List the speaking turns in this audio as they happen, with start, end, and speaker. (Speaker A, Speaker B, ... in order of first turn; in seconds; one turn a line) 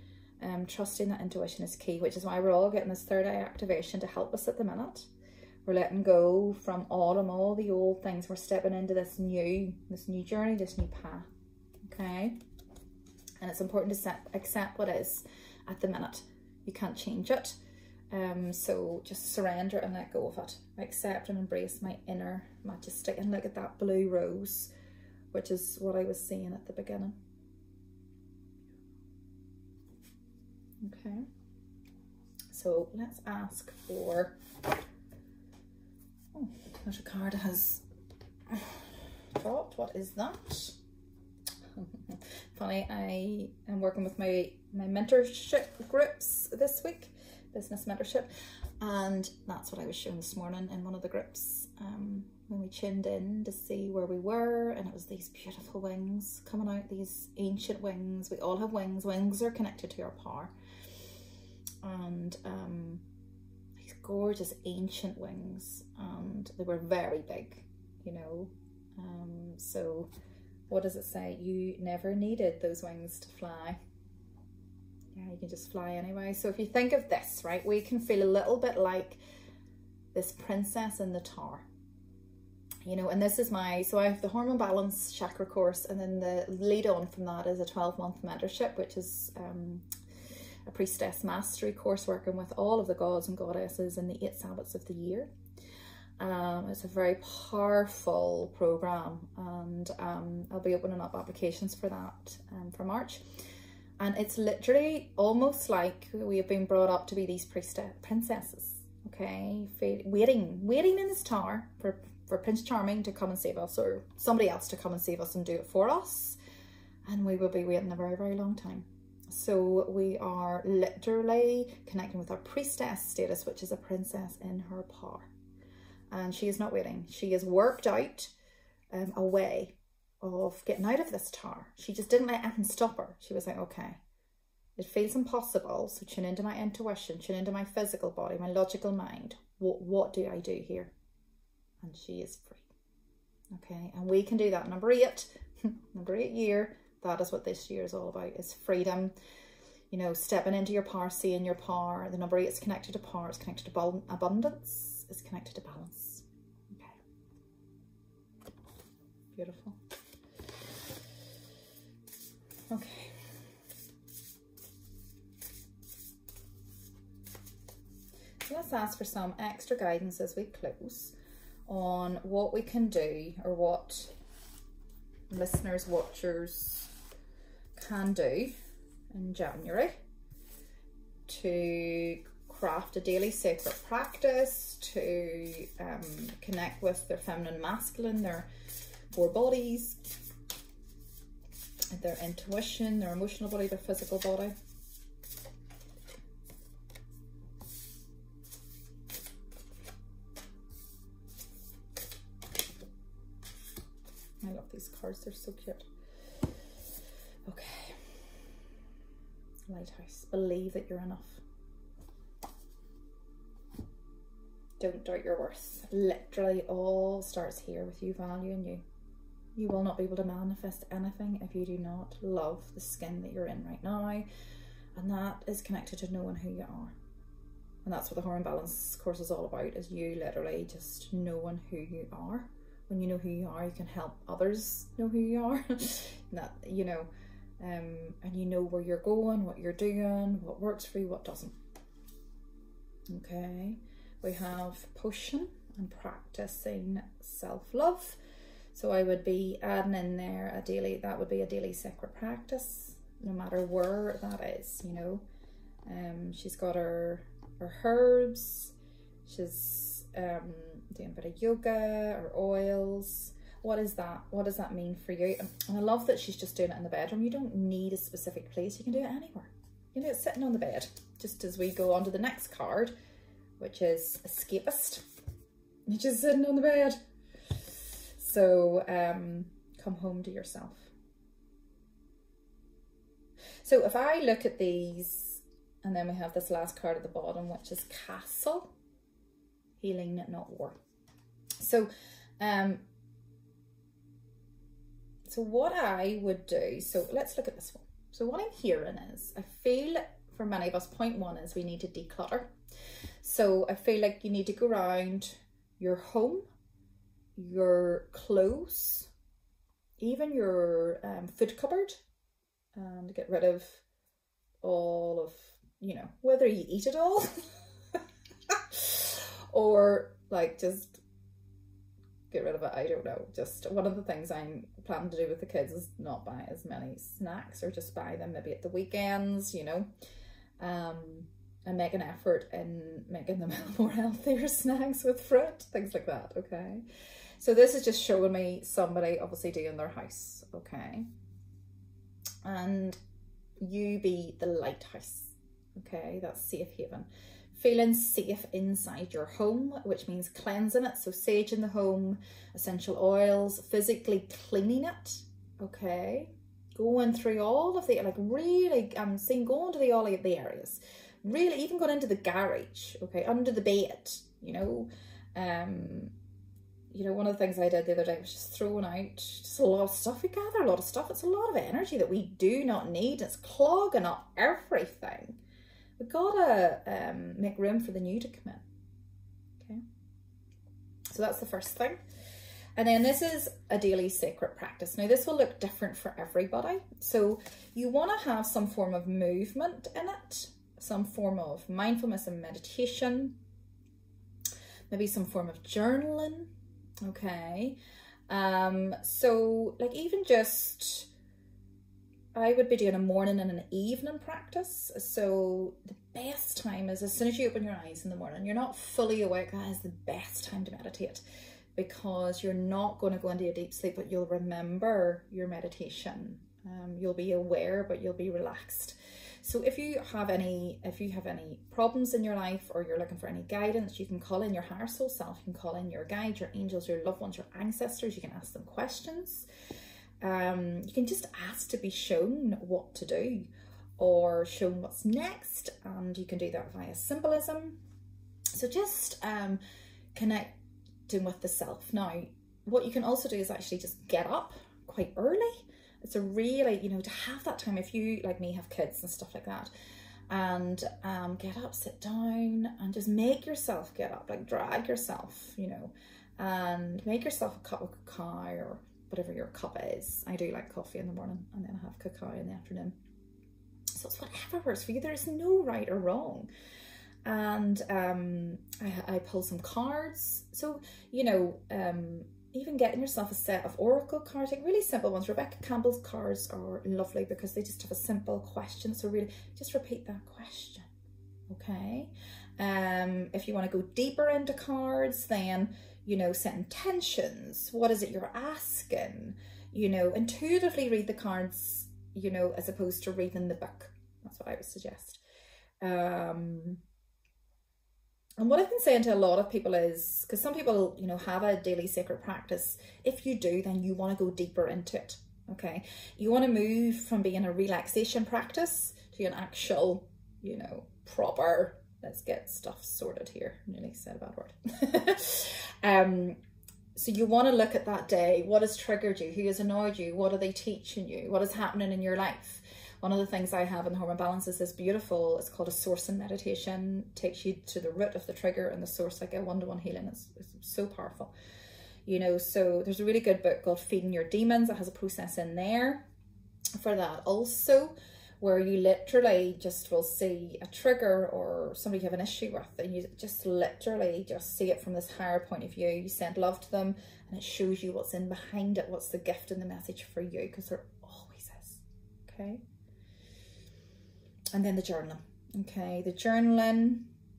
Speaker A: 0.4-5.1
Speaker A: 5.7-11.3
Speaker A: 11.8-12.4
Speaker A: 13.4-17.6
Speaker A: 18.1-24.7
Speaker A: 25.3-27.1
Speaker A: 30.8-31.2
Speaker A: 32.5-34.4
Speaker A: 36.3-37.8
Speaker A: 38.5-40.8
Speaker A: 41.8-48.3
Speaker A: 48.8-60.5
Speaker A: 61.8-63.0
Speaker A: 63.8-70.1
Speaker A: 70.7-73.8
Speaker A: 75.1-79.2
Speaker A: 80.1-81.7
Speaker A: 82.8-89.8
Speaker A: 90.7-95.3
Speaker A: 96.2-103.2
Speaker A: 104.0-116.4
Speaker A: 117.0-125.3
Speaker A: 126.1-128.3
Speaker A: 128.9-134.0
Speaker A: 134.8-140.9
Speaker A: 141.8-142.7
Speaker A: 143.5-149.1
Speaker A: 149.9-157.0
Speaker A: 159.3-159.8
Speaker A: 162.7-163.2
Speaker A: 168.4-171.2
Speaker A: 171.7-174.1
Speaker A: 175.3-176.9
Speaker A: 177.8-178.5
Speaker A: 179.1-179.9
Speaker A: 181.3-188.5
Speaker A: 189.1-190.0
Speaker A: 191.9-194.5
Speaker A: 204.4-205.9
Speaker A: 207.5-208.1
Speaker A: 209.7-211.4
Speaker A: 214.8-218.8
Speaker A: 219.6-224.3
Speaker A: 224.9-226.9
Speaker A: 227.8-241.6
Speaker A: 243.1-248.2
Speaker A: 248.7-255.2
Speaker A: 255.8-258.7
Speaker A: 259.3-272.9
Speaker A: 273.6-275.1
Speaker A: 275.9-277.0
Speaker A: 277.6-280.9
Speaker A: 283.6-288.7
Speaker A: 289.8-290.8
Speaker A: 291.6-292.8
Speaker A: 295.3-302.5
Speaker A: 303.2-306.5
Speaker A: 307.4-309.1
Speaker A: 310.0-312.0
Speaker A: 312.8-313.8
Speaker A: 314.6-317.4
Speaker A: 317.9-321.0
Speaker A: 322.3-329.9
Speaker A: 330.6-336.8
Speaker A: 337.4-341.1
Speaker A: 342.4-343.0
Speaker A: 343.6-366.1
Speaker A: 366.9-375.4
Speaker A: 376.0-378.6
Speaker A: 381.1-382.0
Speaker A: 382.8-393.4
Speaker A: 394.9-396.5
Speaker A: 397.0-397.8
Speaker A: 398.3-401.1
Speaker A: 402.4-411.2
Speaker A: 411.8-429.5
Speaker A: 430.2-437.8
Speaker A: 438.5-439.6
Speaker A: 440.1-440.6
Speaker A: 441.1-449.7
Speaker A: 450.3-462.9
Speaker A: 463.9-466.5
Speaker A: 467.2-480.9
Speaker A: 481.5-495.2
Speaker A: 495.8-496.8
Speaker A: 498.4-516.4
Speaker A: 517.0-531.3
Speaker A: 532.1-536.0
Speaker A: 536.8-552.6
Speaker A: 554.5-557.1